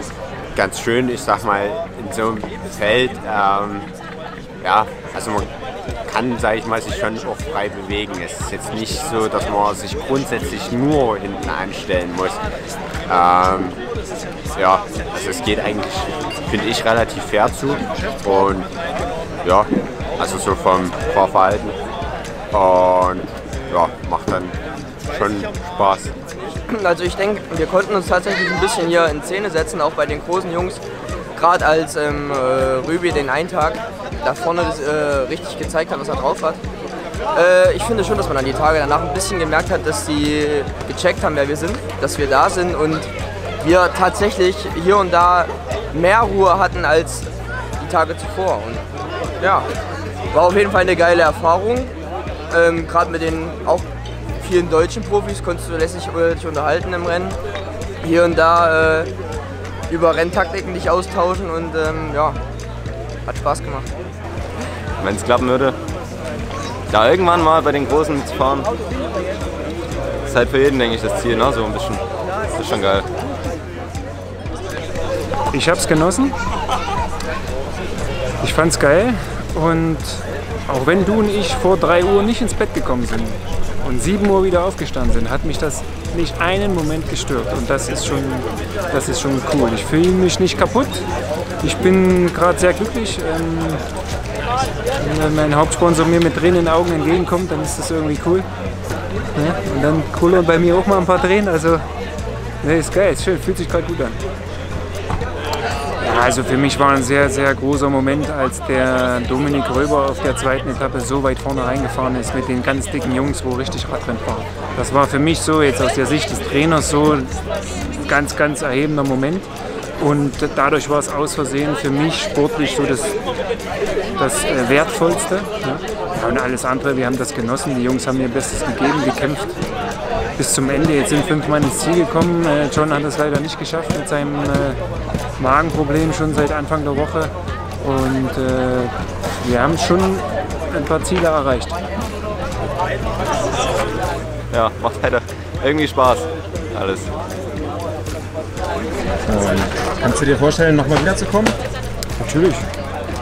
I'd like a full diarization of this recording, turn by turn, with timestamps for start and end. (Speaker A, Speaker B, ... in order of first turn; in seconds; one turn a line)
Speaker A: 0.5-3.9
Speaker A: 4.6-5.5
Speaker A: 6.0-12.4
Speaker A: 13.1-13.8
Speaker A: 14.5-18.7
Speaker A: 19.4-21.8
Speaker A: 22.5-26.1
Speaker B: 26.7-30.8
Speaker B: 31.3-36.6
Speaker B: 37.3-43.1
Speaker B: 43.6-48.8
Speaker B: 49.4-49.7
Speaker B: 50.3-51.9
Speaker B: 52.5-53.9
Speaker B: 54.4-57.4
Speaker B: 58.0-59.1
Speaker B: 59.9-62.4
Speaker B: 63.2-63.9
Speaker C: 65.0-65.8
Speaker C: 66.9-68.7
Speaker C: 70.3-73.0
Speaker D: 75.5-76.3
Speaker D: 78.4-91.1
Speaker D: 91.6-93.8
Speaker D: 95.0-98.5
Speaker D: 99.3-101.8
Speaker D: 102.6-104.2
Speaker D: 106.0-117.3
Speaker D: 117.9-123.2
Speaker D: 124.2-129.6
Speaker D: 130.3-134.8
Speaker D: 135.4-141.8
Speaker C: 144.5-147.1
Speaker E: 149.3-151.5
Speaker D: 152.2-152.7